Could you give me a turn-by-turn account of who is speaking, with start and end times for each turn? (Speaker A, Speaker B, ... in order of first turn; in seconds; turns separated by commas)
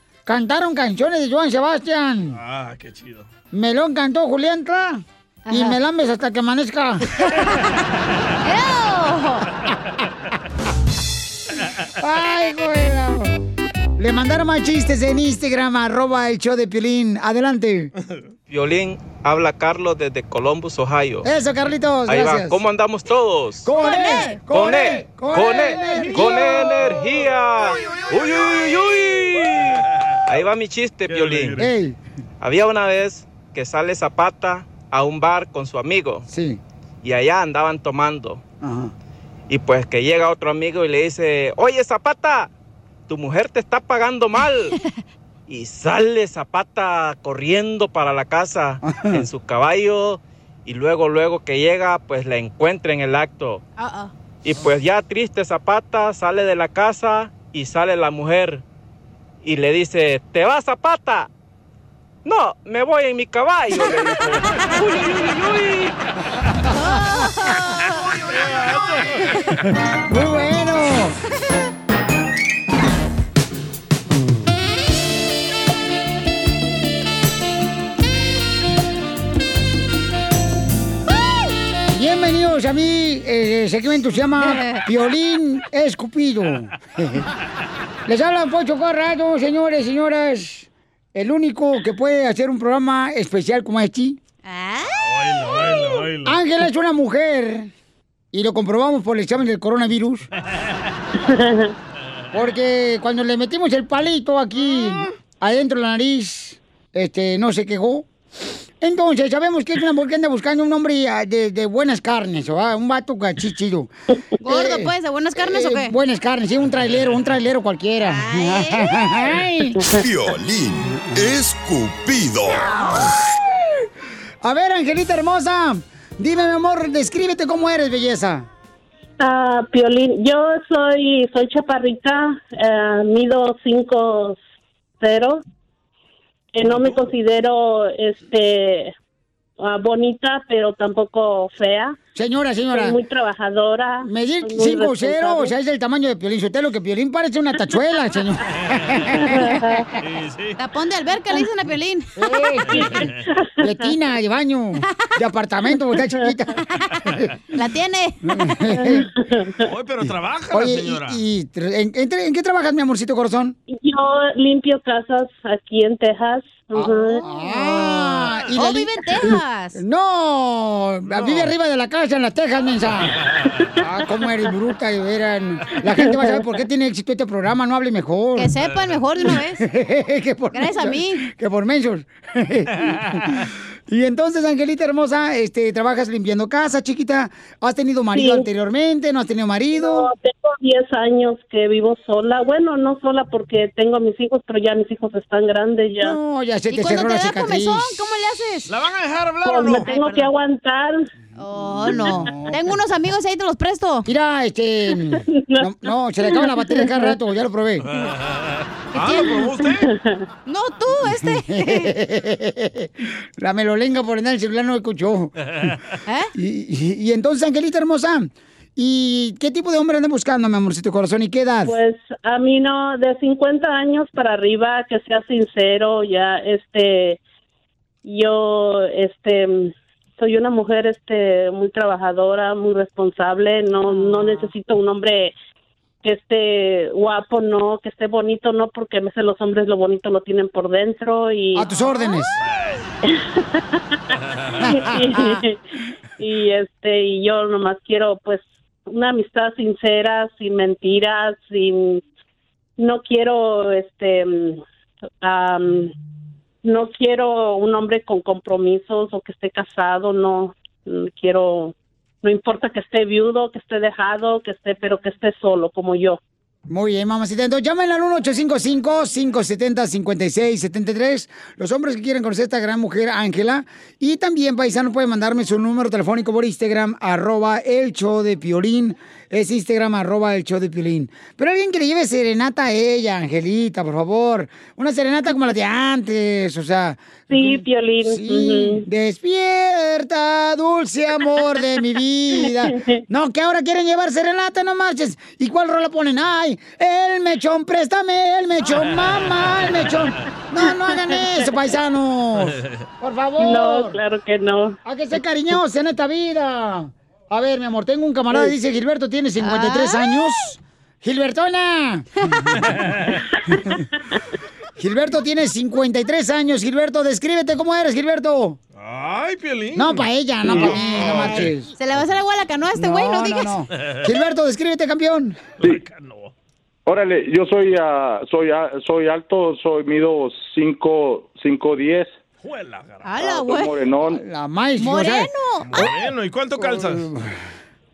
Speaker A: 0.3-2.4, Speaker B: 2.3-3.3, Speaker A: 3.5-7.1, Speaker C: 5.5-5.8, Speaker C: 7.3-7.8, Speaker C: 8.4-9.5, Speaker A: 12.0-13.4, Speaker A: 14.0-17.9, Speaker D: 18.5-21.3, Speaker A: 21.2-22.6, Speaker D: 22.1-23.7, Speaker A: 23.6-26.8, Speaker C: 23.8-24.5, Speaker D: 24.5-31.6, Speaker B: 26.2-30.4, Speaker B: 31.1-31.7, Speaker A: 31.6-31.9, Speaker D: 32.4-36.3, Speaker A: 36.3-36.6, Speaker D: 37.0-38.4, Speaker D: 39.5-42.5, Speaker D: 43.1-44.8, Speaker D: 45.5-53.6, Speaker C: 53.8-54.1, Speaker D: 54.4-58.6, Speaker D: 59.4-61.3, Speaker D: 62.2-65.9, Speaker C: 66.7-68.1, Speaker B: 68.2-69.3, Speaker A: 70.1-71.2, Speaker A: 81.9-87.3, Speaker C: 84.4-84.8, Speaker A: 88.1-94.2, Speaker C: 94.5-96.1, Speaker B: 95.0-96.4, Speaker A: 96.2-97.7, Speaker A: 98.3-100.3, Speaker E: 101.2-101.7, Speaker A: 102.3-108.1, Speaker A: 108.8-113.9, Speaker C: 114.4-116.0, Speaker A: 114.5-119.8, Speaker C: 118.0-119.1, Speaker F: 119.9-122.7, Speaker A: 124.4-128.5, Speaker E: 129.2-134.4, Speaker E: 135.0-135.4, Speaker E: 136.5-138.9, Speaker B: 136.7-137.1, Speaker E: 139.6-142.0, Speaker A: 142.2-143.0, Speaker E: 142.7-145.5, Speaker A: 144.0-149.6, Speaker B: 148.5-149.3, Speaker E: 149.2-149.9, Speaker B: 150.0-150.6, Speaker C: 150.6-152.1, Speaker A: 152.2-157.3, Speaker E: 152.7-153.9, Speaker B: 152.8-153.2, Speaker E: 156.0-156.3, Speaker C: 156.6-156.9, Speaker C: 157.5-158.8, Speaker A: 158.3-159.1, Speaker E: 158.8-159.6, Speaker B: 159.7-161.2, Speaker A: 160.5-163.6, Speaker E: 163.7-167.2, Speaker A: 166.8-173.2, Speaker C: 167.3-169.8, Speaker B: 171.1-171.5, Speaker A: 173.8-178.6, Speaker E: 175.9-176.4, Speaker C: 178.4-179.6, Speaker B: 178.6-178.9, Speaker A: 179.2-190.1, Speaker C: 180.5-181.3, Speaker B: 182.8-183.4, Speaker E: 188.1-188.5, Speaker E: 189.8-196.2, Speaker A: 196.0-198.0, Speaker C: 196.7-198.8, Speaker B: 198.7-199.9, Speaker E: 199.4-201.1, Speaker C: 199.7-200.3, Speaker C: 201.4-204.1, Speaker A: 201.8-202.7, Speaker A: 204.1-207.9, Speaker E: 205.1-205.7, Speaker E: 206.2-207.1, Speaker B: 207.9-209.9, Speaker C: 208.9-209.5, Speaker E: 209.7-210.2, Speaker C: 210.5-211.9, Speaker A: 211.1-215.3, Speaker C: 216.1-216.3, Speaker A: 216.3-221.8, Speaker E: 221.7-227.2, Speaker E: 228.1-235.3, Speaker C: 233.9-234.5, Speaker E: 236.0-241.8, Speaker A: 241.6-242.4, Speaker B: 242.4-242.9, Speaker B: 244.3-244.8, Speaker E: 244.6-245.6, Speaker A: 244.7-245.4, Speaker E: 246.2-252.0, Speaker E: 252.8-254.6, Speaker E: 255.2-255.9, Speaker E: 256.6-266.2, Speaker A: 266.7-304.0, Speaker E: 287.3-288.9, Speaker E: 292.4-293.0, Speaker B: 298.8-300.0, Speaker E: 300.6-301.5, Speaker B: 302.5-302.8, Speaker E: 303.4-304.8, Speaker A: 304.9-312.1, Speaker C: 309.4-310.3, Speaker B: 312.7-313.1, Speaker A: 314.8-318.6, Speaker B: 318.8-321.5, Speaker A: 319.8-321.7, Speaker C: 320.6-323.6, Speaker A: 322.8-325.4, Speaker B: 325.6-326.3, Speaker G: 326.9-332.1, Speaker B: 332.4-333.3, Speaker C: 333.0-333.8, Speaker G: 333.3-334.2, Speaker A: 334.1-335.9, Speaker C: 334.8-335.9, Speaker B: 335.7-337.1, Speaker A: 336.6-337.3